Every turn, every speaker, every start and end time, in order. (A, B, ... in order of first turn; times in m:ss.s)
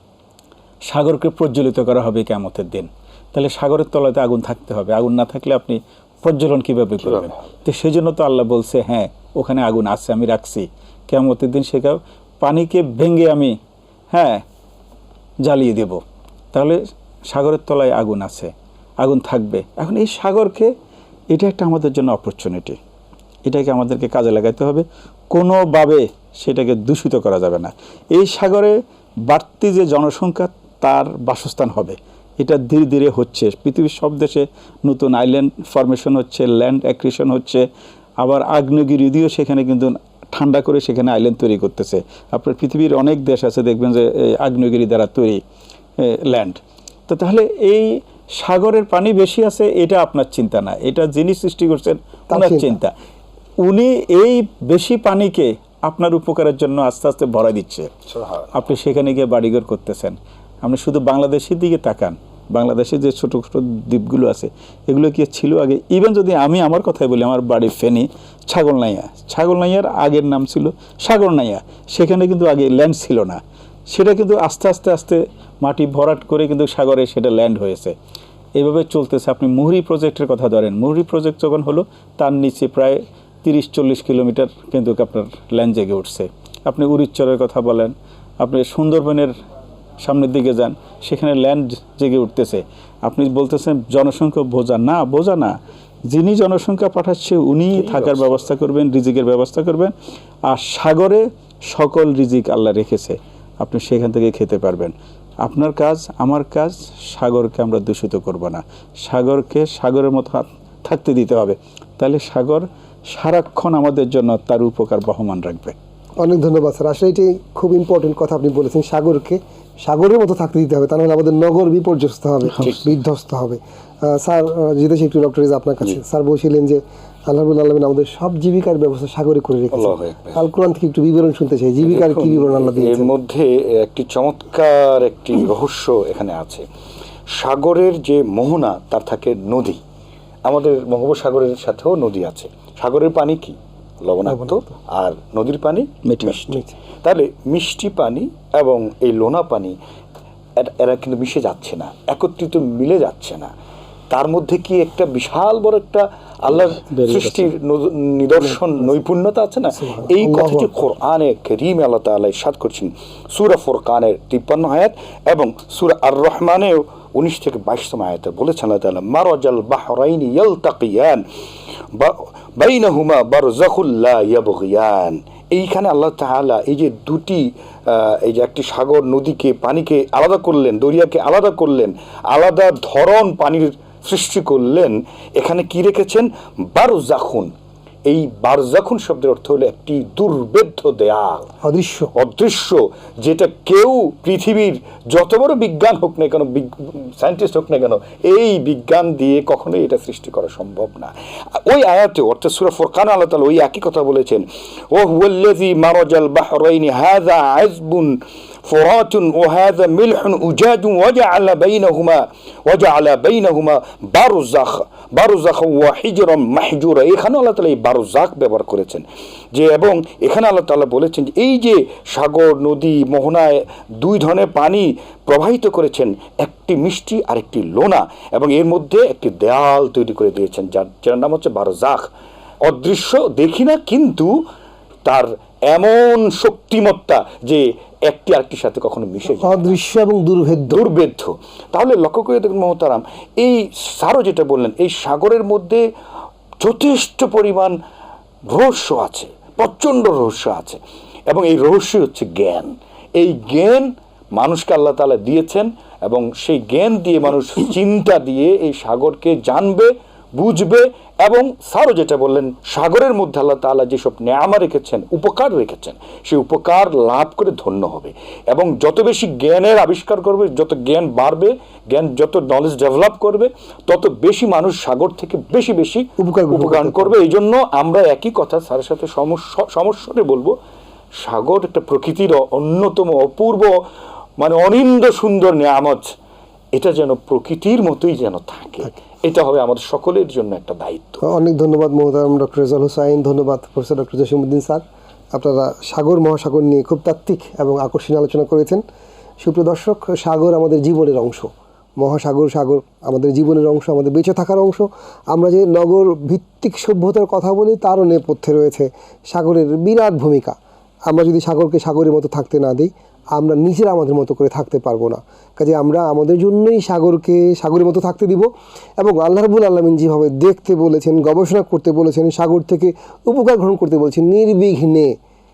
0:00.9-0:13.6 A
0:14.1-0:14.4 A
0:15.4-0:16.0 A
0:17.3-0:20.7 A
0:21.3-0:22.8 A
0:23.4-0:28.8 A
0:29.3-0:37.6 A
0:38.2-0:45.4 A
0:46.0-0:52.9 A
0:52.3-0:52.8 B
0:53.6-0:57.9 A
0:58.1-0:58.5 C
0:58.5-1:18.0 A
1:18.6-1:29.3 A
1:30.0-1:35.5 A
1:36.1-1:39.9 A
1:40.5-1:55.8 A
1:56.2-2:13.1 B
2:02.6-2:02.9 C
2:09.7-2:10.4 C
2:11.8-2:16.6 C
2:17.3-2:19.8 C
2:20.5-2:29.8 C
2:24.3-2:24.6 B
2:26.0-2:26.4 A
2:26.5-2:26.7 B
2:30.6-2:33.5 C
2:34.1-2:51.2 C
2:36.7-2:37.5 A
2:39.8-2:40.8 B
2:51.9-3:07.5 C
3:08.1-3:11.5 C
3:11.6-3:12.1 B
3:12.1-3:52.1 C
3:52.6-3:54.4 C
3:55.0-3:59.8 C
3:59.4-4:00.8 B
4:00.7-4:05.8 C
4:06.6-4:07.7 C
4:08.5-4:10.8 C
4:11.3-4:40.5 C
4:36.2-4:37.2 B
4:41.2-4:43.7 C
4:44.4-4:46.0 C
4:46.8-4:51.2 C
4:51.2-4:58.8 B
4:59.4-5:25.1 B